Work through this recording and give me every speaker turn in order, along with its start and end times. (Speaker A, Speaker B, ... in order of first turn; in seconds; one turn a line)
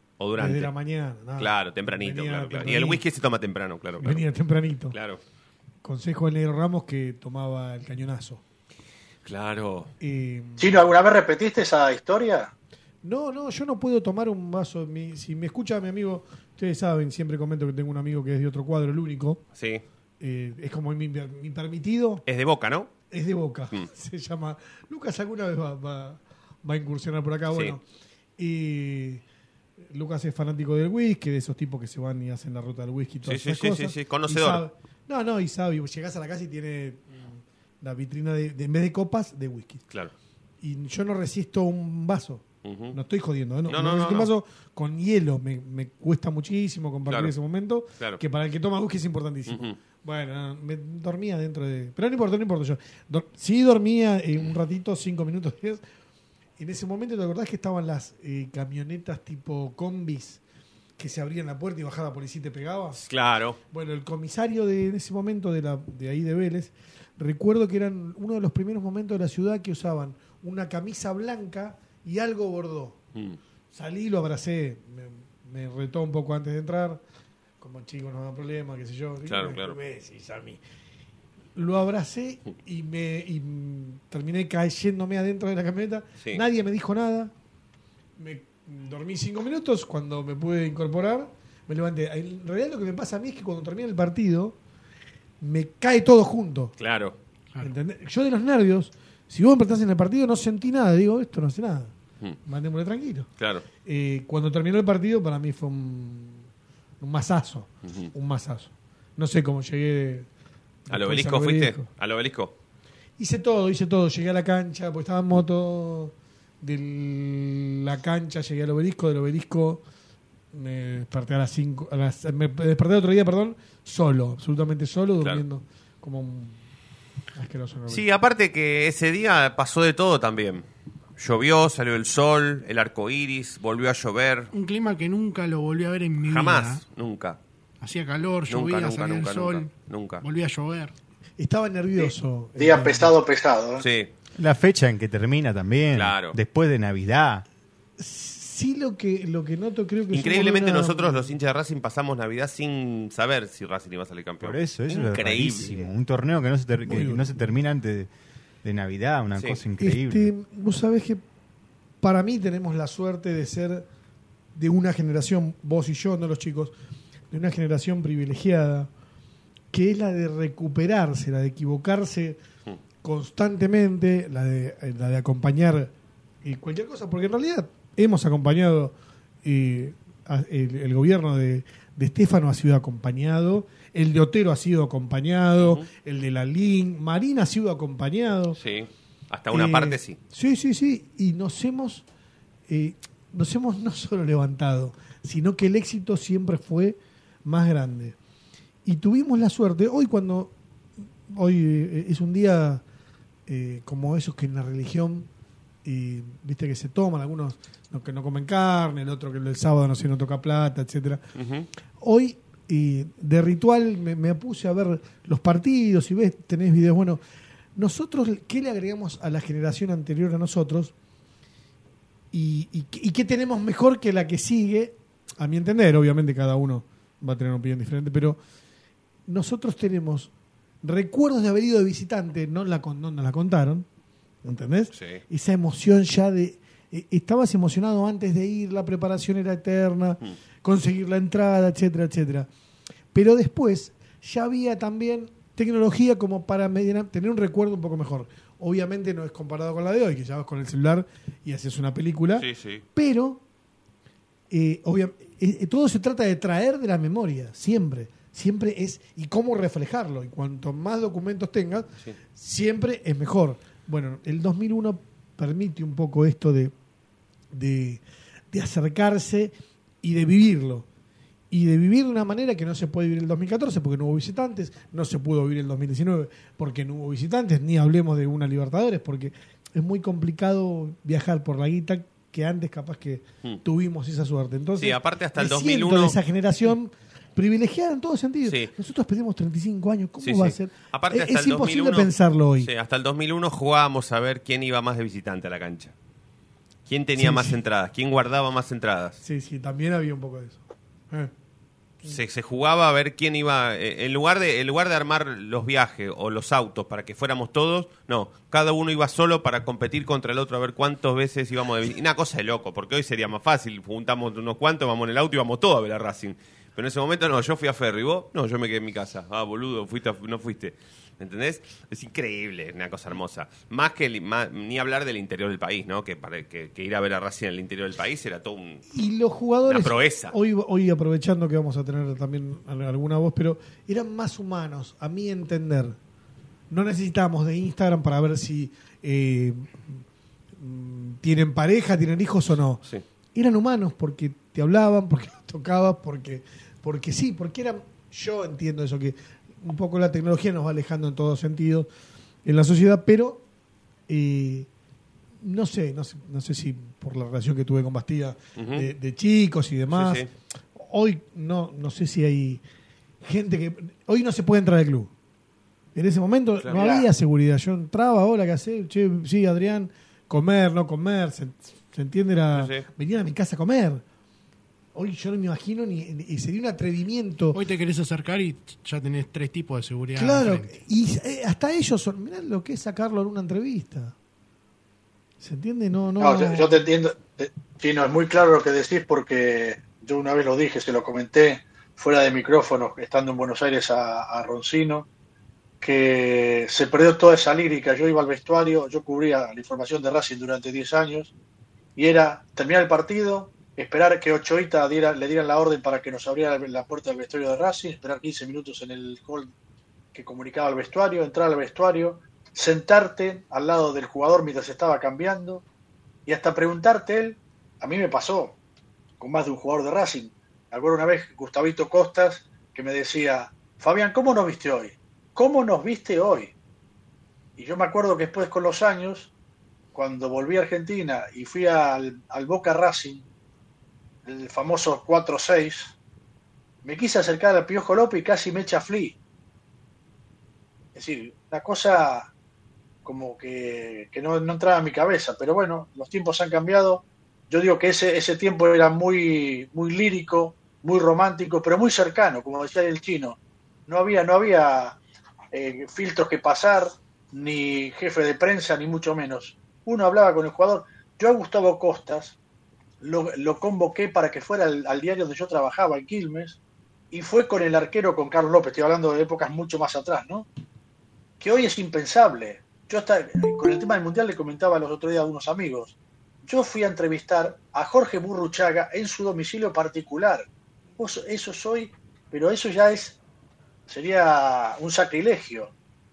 Speaker A: 0.2-0.7
Speaker B: 0.4-3.0
Speaker A: 1.4-4.2
Speaker B: 4.0-5.0
Speaker A: 4.9-5.2
Speaker B: 5.8-8.4
Speaker A: 9.2-9.9
Speaker B: 10.0-10.8
Speaker C: 10.6-12.5
Speaker B: 13.0-19.4
Speaker A: 19.6-19.8
Speaker B: 20.2-22.2
Speaker A: 22.2-22.9
Speaker B: 23.1-27.8
Speaker B: 28.4-29.2
Speaker B: 29.8-39.8
Speaker A: 33.2-34.6
Speaker B: 40.6-55.8
Speaker A: 42.6-43.0
Speaker A: 43.7-44.3
Speaker A: 49.5-49.8
Speaker B: 56.6-60.4
Speaker B: 61.0-63.1
Speaker A: 63.0-63.6
Speaker B: 63.7-73.0
Speaker B: 73.7-77.0
Speaker B: 77.6-80.6
Speaker A: 79.2-79.8
Speaker B: 81.5-87.3
Speaker B: 88.2-94.6
Speaker B: 95.4-96.7
Speaker A: 96.8-97.2
Speaker B: 97.6-101.9
Speaker B: 102.4-103.3
Speaker A: 103.4-103.6
Speaker B: 103.8-106.5
Speaker B: 107.0-110.3
Speaker A: 107.8-108.1
Speaker B: 110.8-111.8
Speaker A: 110.9-112.5
Speaker B: 113.2-119.8
Speaker B: 120.5-126.6
Speaker B: 127.3-128.1
Speaker A: 127.9-130.6
Speaker A: 131.2-134.5
Speaker D: 134.5-136.8
Speaker A: 136.2-137.4
Speaker D: 137.8-140.9
Speaker A: 138.5-140.2
Speaker B: 141.4-143.1
Speaker C: 142.0-143.8
Speaker A: 143.8-144.1
Speaker E: 144.4-147.4
Speaker A: 145.9-146.4
Speaker B: 148.0-151.3
Speaker A: 150.1-155.8
Speaker E: 154.4-158.1
Speaker B: 156.8-157.3
Speaker E: 158.6-160.3
Speaker A: 159.3-159.6
Speaker B: 159.8-161.2
Speaker B: 162.0-163.9
Speaker B: 164.5-166.7
Speaker B: 167.3-168.9
Speaker B: 169.7-172.4
Speaker B: 173.0-175.9
Speaker B: 176.4-188.6
Speaker A: 185.6-185.9
Speaker A: 188.6-190.2
Speaker B: 189.5-192.0
Speaker B: 192.7-198.2
Speaker B: 198.8-200.5
Speaker B: 201.3-202.8
Speaker B: 203.5-205.3
Speaker B: 205.8-211.2
Speaker A: 211.3-211.7
Speaker B: 212.0-217.2
Speaker B: 217.7-220.9
Speaker B: 222.3-228.4
Speaker B: 229.2-230.3
Speaker B: 230.8-233.8
Speaker B: 234.4-242.5
Speaker A: 234.9-235.2
Speaker B: 243.1-253.4
Speaker A: 252.4-252.8
Speaker B: 254.5-266.7
Speaker B: 267.5-270.9
Speaker B: 271.5-292.7
Speaker A: 284.8-286.2
Speaker A: 288.4-288.7
Speaker A: 290.2-292.1
Speaker A: 292.6-295.9
Speaker A: 296.9-299.2
Speaker B: 297.1-297.6
Speaker B: 299.2-301.3
Speaker A: 302.1-328.8
Speaker B: 328.9-336.0
Speaker A: 329.7-330.3
Speaker B: 336.7-340.0
Speaker B: 340.6-342.8
Speaker B: 343.3-351.9
Speaker B: 352.4-353.4
Speaker B: 354.1-354.7
Speaker B: 355.4-362.6
Speaker A: 358.6-358.9
Speaker A: 359.9-360.3
Speaker B: 363.2-365.1
Speaker B: 365.9-374.0
Speaker C: 366.7-367.1
Speaker A: 372.5-372.9
Speaker B: 374.9-377.6
Speaker D: 377.5-380.8
Speaker B: 380.1-384.1
Speaker B: 385.4-386.8
Speaker C: 386.2-395.1
Speaker C: 395.8-401.3
Speaker C: 401.9-409.5
Speaker C: 410.1-415.6
Speaker C: 416.2-418.5
Speaker C: 419.2-426.5
Speaker C: 427.6-429.3
Speaker C: 429.9-433.2
Speaker C: 434.2-435.9
Speaker C: 436.8-439.1
Speaker C: 440.9-442.3
Speaker C: 443.0-455.0
Speaker C: 455.5-462.3
Speaker C: 463.0-466.6
Speaker C: 467.1-470.5
Speaker C: 471.4-480.4
Speaker C: 481.0-483.2
Speaker C: 483.9-485.7